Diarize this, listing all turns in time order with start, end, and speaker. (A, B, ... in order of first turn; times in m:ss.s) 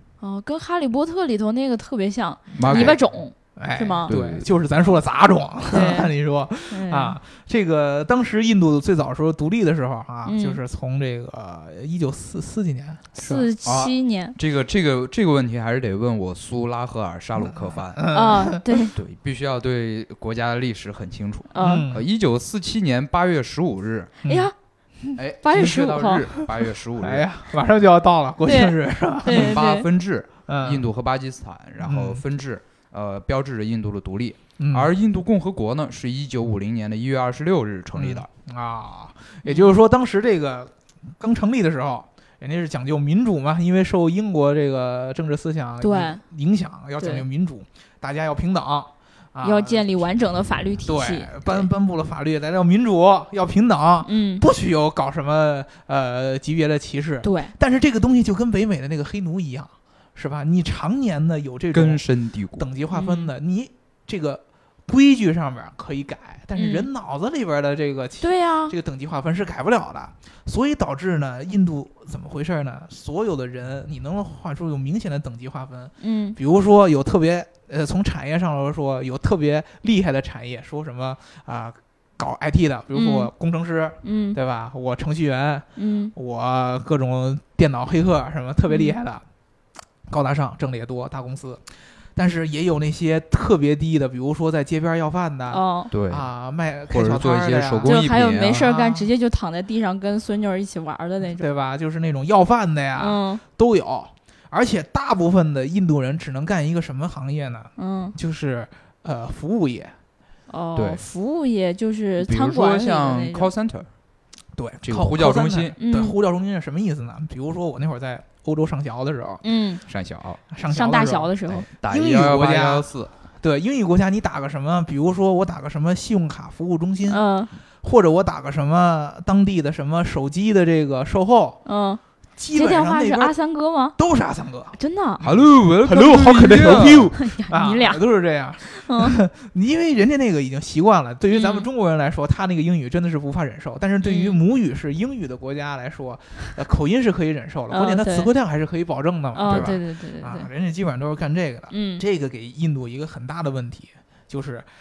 0:00.2-0:04.1 A
0:02.6-0:03.0 B
0:02.6-0:03.0 C
0:03.6-0:13.5 C
0:04.1-0:04.5 B
0:05.7-0:06.1 A
0:06.7-0:07.2 A
0:10.3-0:10.6 A
0:13.2-0:14.4 A
0:13.6-0:18.0 B
0:17.9-0:18.7 C
0:18.1-0:19.0 A
0:19.0-0:24.1 B
0:21.5-0:21.9 A
0:21.6-0:22.0 C
0:24.2-0:24.5 C
0:24.3-0:24.5 A
0:25.2-0:27.3 B
0:25.4-0:26.3 A
0:27.0-0:29.6 C
0:28.5-0:29.9 A
0:29.3-0:38.3 B
0:30.5-0:30.9 C
0:31.8-0:32.2 C
0:34.6-0:34.9 C
0:38.0-0:49.9 C
0:45.8-0:46.2 A
0:47.0-0:47.2 A
0:49.4-0:51.7 A
0:50.8-1:02.0 C
0:54.0-0:54.5 A
0:57.2-0:57.5 A
1:01.7-1:02.7 B
1:02.6-1:29.2 C
1:02.9-1:03.3 A
1:06.6-1:06.9 A
1:08.2-1:08.8 A
1:16.0-1:16.4 A
1:22.9-1:23.3 A
1:24.0-1:24.4 A
1:25.8-1:26.1 A
1:28.7-1:29.0 A
1:30.1-1:31.6 C
1:32.2-1:38.0 C
1:35.5-1:35.9 A
1:35.9-1:36.3 B
1:36.9-1:38.6 B
1:37.8-1:41.5 A
1:38.6-1:39.1 C
1:41.4-1:49.9 C
1:43.0-1:43.4 A
1:47.8-1:48.2 A
1:50.5-1:53.5 A
1:50.8-1:51.0 B
1:52.2-1:53.9 B
1:54.6-1:59.4 C
1:54.8-1:55.8 B
1:55.8-1:56.2 A
1:59.4-1:59.8 A
1:59.9-2:00.4 B
2:00.5-2:02.9 C
2:00.7-2:01.7 A
2:01.5-2:03.1 B
2:03.4-2:07.2 C
2:07.1-2:07.5 A
2:07.8-2:11.6 C
2:11.7-2:12.0 A
2:12.4-2:13.4 C
2:12.5-2:14.0 A
2:14.0-2:34.7 C
2:14.8-2:15.2 A
2:15.2-2:17.2 B
2:17.2-2:18.0 A
2:18.7-2:19.2 A
2:21.3-2:21.7 A
2:24.0-2:24.4 A
2:27.7-2:28.3 A
2:29.4-2:30.5 A
2:29.5-2:29.8 B
2:31.7-2:32.0 A